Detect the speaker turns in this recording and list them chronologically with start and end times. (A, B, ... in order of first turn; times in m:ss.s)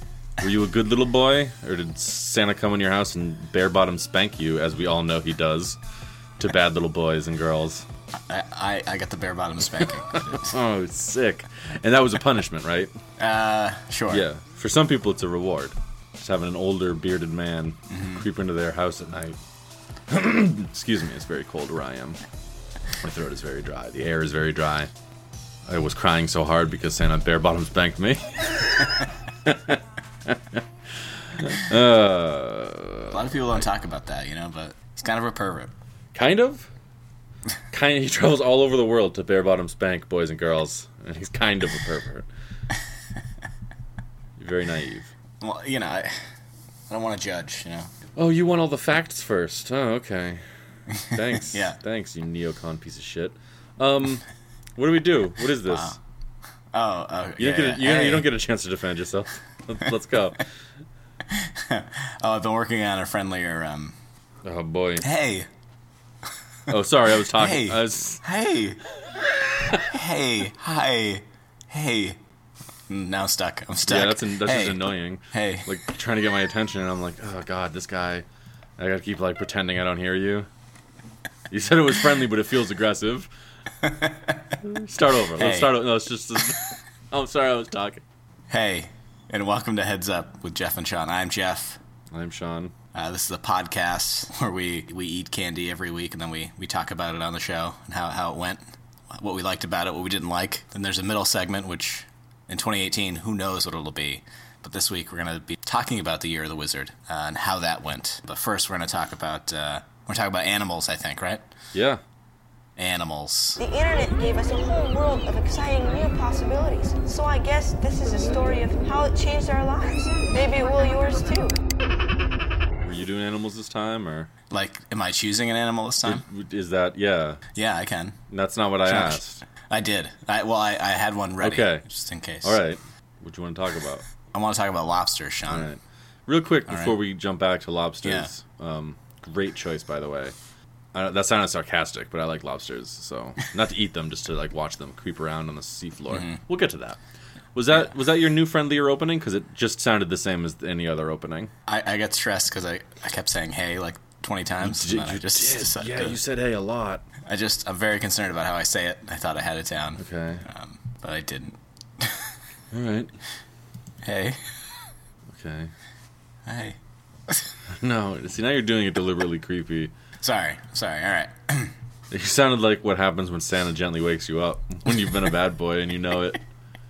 0:00.4-0:05.8 A
0:06.4-0:07.9 A
0:08.3-0:10.6 B
0:10.2-0:12.9 A
0:13.2-0:14.3 B
0:14.1-0:19.4 A
0:17.9-0:18.2 B
0:20.1-0:22.2 A
0:23.0-0:24.9 A
0:25.7-0:33.6 A
0:33.1-0:35.7 B
0:36.1-0:36.7 A
0:37.7-0:42.3 A
0:44.4-0:45.1 A
0:45.4-0:46.3 B
0:46.9-0:47.9 B
0:48.2-0:50.4 A
0:50.9-0:51.8 B
0:51.1-0:54.2 A
0:54.8-0:56.0 A
0:55.7-0:56.0 B
0:56.7-0:58.3 B
0:57.4-1:00.5 A
1:01.3-1:04.0 B
1:04.4-1:05.1 A
1:05.0-1:05.5 B
1:06.7-1:08.2 A
1:07.3-1:08.8 B
1:09.6-1:12.2 B
1:12.9-1:15.7 B
1:13.8-1:18.2 A
1:18.8-1:20.5 A
1:21.5-1:23.3 A
1:23.8-1:24.4 B
1:24.6-1:28.0 A
1:25.4-1:25.8 B
1:28.5-1:31.8 B
1:32.1-1:32.7 A
1:32.9-1:51.4 B
1:51.7-1:52.0 A
1:52.8-1:53.6 B
1:53.6-2:01.6 C
2:02.8-2:04.3 A
2:04.5-2:06.2 B
2:06.0-2:07.4 A
2:07.6-2:08.2 B
2:08.3-2:09.4 A
2:08.8-2:12.6 B
2:11.4-2:11.8 A
2:12.4-2:14.0 A
2:14.3-2:15.7 B
2:15.5-2:20.4 A
2:16.7-2:17.0 B
2:18.0-2:18.3 B
2:20.9-2:27.0 A
2:26.1-2:26.4 B
2:27.6-2:31.5 A
2:31.7-2:36.2 B
2:34.6-2:37.0 A
2:37.2-2:42.3 B
2:40.0-2:40.4 A
2:42.7-2:43.1 A
2:44.0-2:44.6 B
2:45.3-2:45.7 A
2:46.5-2:46.8 B
2:47.7-2:49.9 A
2:50.2-2:51.8 B
2:52.1-2:56.4 A